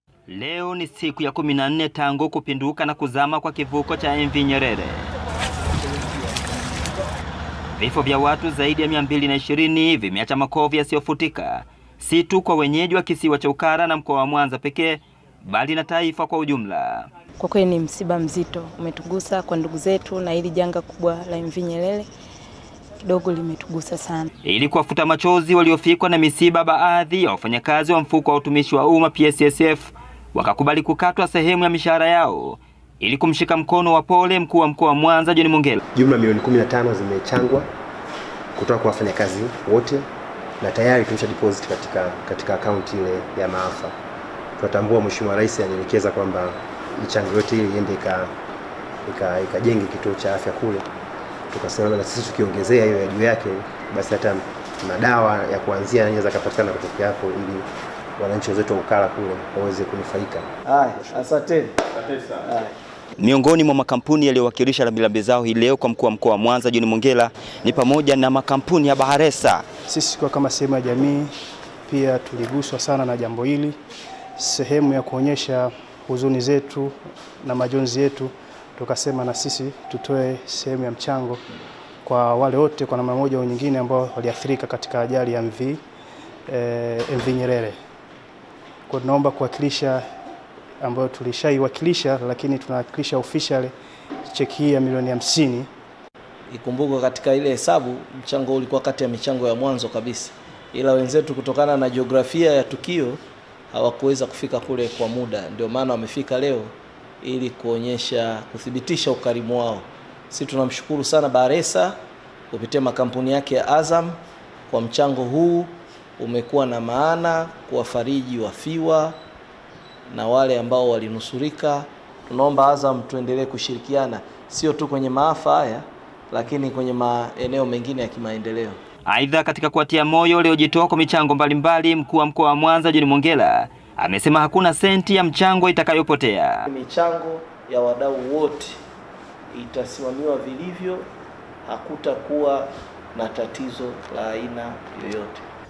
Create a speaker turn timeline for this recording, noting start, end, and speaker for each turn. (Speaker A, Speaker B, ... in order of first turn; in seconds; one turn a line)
Speaker A: 0.3-5.1
Speaker A: 7.8-17.1
Speaker B: 17.4-22.1
Speaker B: 23.0-24.3
Speaker A: 24.4-35.8
Speaker C: 36.0-37.7
Speaker C: 38.5-40.0
Speaker C: 40.6-43.9
Speaker C: 44.6-48.3
Speaker C: 49.0-50.9
Speaker C: 51.5-57.6
Speaker C: 58.2-60.5
Speaker D: 60.6-62.7
Speaker A: 63.2-69.6
Speaker E: 69.9-71.3
Speaker E: 71.9-73.8
Speaker E: 74.4-81.4
Speaker E: 82.0-85.8
Speaker E: 86.5-87.7
Speaker E: 88.9-90.0
Speaker E: 90.8-93.7
Speaker E: 94.3-95.7
Speaker D: 96.5-103.2
Speaker D: 103.7-112.0
Speaker D: 112.5-114.2
Speaker D: 114.7-119.2
Speaker D: 120.1-128.8
Speaker A: 129.1-136.6
Speaker D: 136.7-138.8
Speaker D: 139.5-141.0
Speaker D: 141.6-145.4